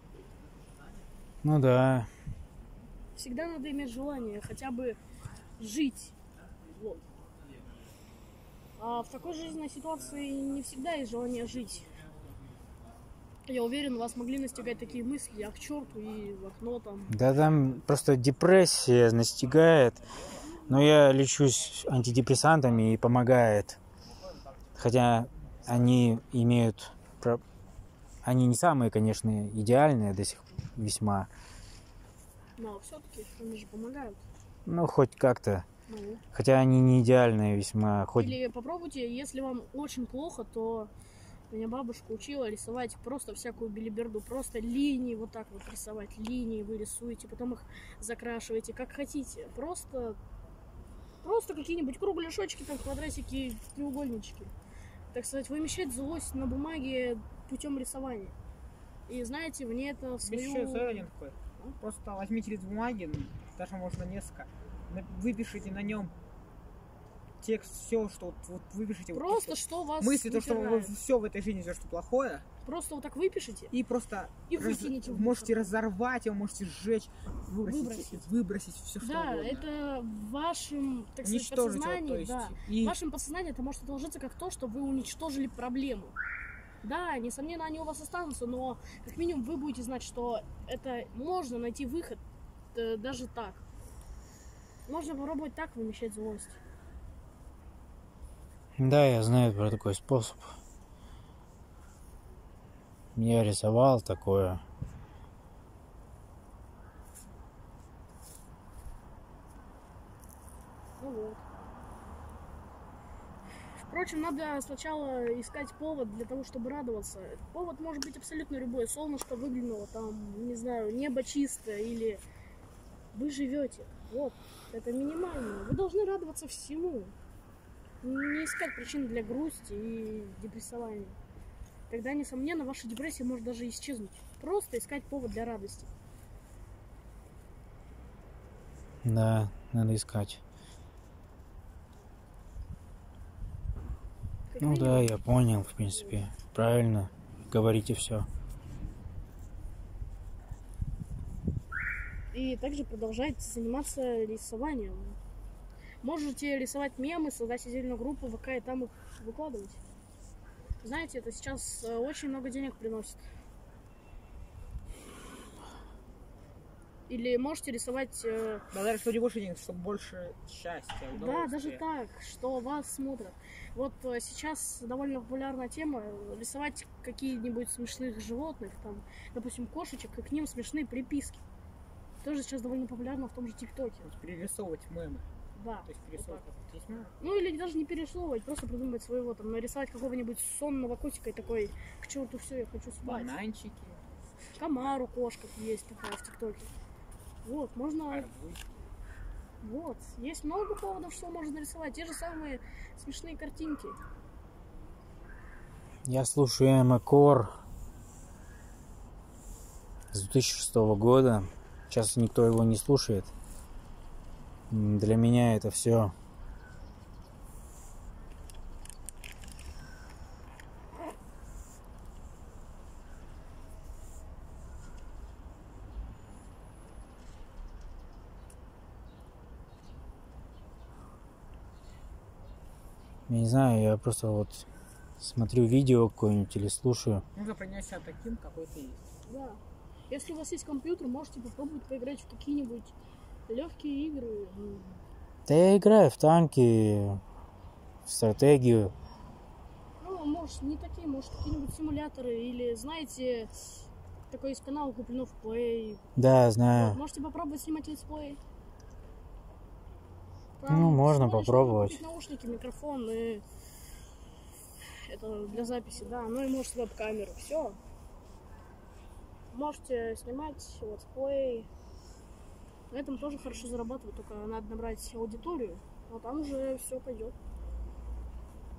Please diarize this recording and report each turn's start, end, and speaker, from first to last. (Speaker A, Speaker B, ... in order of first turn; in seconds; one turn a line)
Speaker A: 1.4-2.1
Speaker B: 3.1-5.0
Speaker B: 5.6-6.1
Speaker B: 6.7-7.0
Speaker B: 8.8-12.0
Speaker B: 13.5-17.1
Speaker A: 17.1-20.0
Speaker A: 20.7-23.8
Speaker A: 24.8-27.4
Speaker A: 28.2-31.3
Speaker B: 32.6-34.2
Speaker A: 34.6-35.6
Speaker B: 35.9-36.2
Speaker A: 36.3-38.4
Speaker B: 38.1-40.9
Speaker B: 41.5-50.2
Speaker B: 51.2-54.5
Speaker B: 55.1-58.4
Speaker B: 59.1-61.1
Speaker C: 60.2-66.1
Speaker C: 67.4-72.4
Speaker B: 69.1-70.9
Speaker B: 72.7-73.7
Speaker C: 73.7-79.7
Speaker B: 74.5-75.7
Speaker B: 77.7-78.2
Speaker B: 79.0-86.2
Speaker C: 81.2-83.0
Speaker B: 86.8-92.2
Speaker B: 92.7-93.6
Speaker B: 94.9-96.6
Speaker A: 98.8-100.5
Speaker A: 103.1-104.6
Speaker B: 111.0-111.4
Speaker B: 113.8-122.2
Speaker B: 123.1-127.1
Speaker B: 128.0-131.2
Speaker B: 131.9-135.9
Speaker A: 139.0-140.4
Speaker B: 144.5-145.1
Speaker A: 144.6-148.3
Speaker B: 152.3-155.2
Speaker B: 156.0-159.8
Speaker B: 160.8-163.2
Speaker B: 167.1-168.7
Speaker C: 168.7-171.8
Speaker B: 171.1-181.4
Speaker B: 182.2-184.1
Speaker C: 184.0-185.2
Speaker B: 185.6-186.4
Speaker C: 185.8-187.2
Speaker B: 187.2-193.4
Speaker C: 193.0-194.0
Speaker B: 194.6-196.7
Speaker B: 197.4-198.2
Speaker C: 198.1-198.8
Speaker B: 199.6-204.0
Speaker A: 206.1-207.5
Speaker A: 210.1-213.3
Speaker A: 214.7-216.1
Speaker A: 233.3-234.7
Speaker A: 235.2-237.2
Speaker C: 237.3-239.1
Speaker B: 239.3-239.6
Speaker B: 240.1-242.9
Speaker B: 243.5-245.0
Speaker A: 245.5-247.2
Speaker A: 248.1-248.9
Speaker B: 250.0-256.0
Speaker A: 256.1-257.0
Speaker B: 256.7-258.4
Speaker B: 260.6-263.4
Speaker A: 260.7-262.0
Speaker B: 265.1-267.8
Speaker B: 269.5-271.7
Speaker B: 272.9-277.3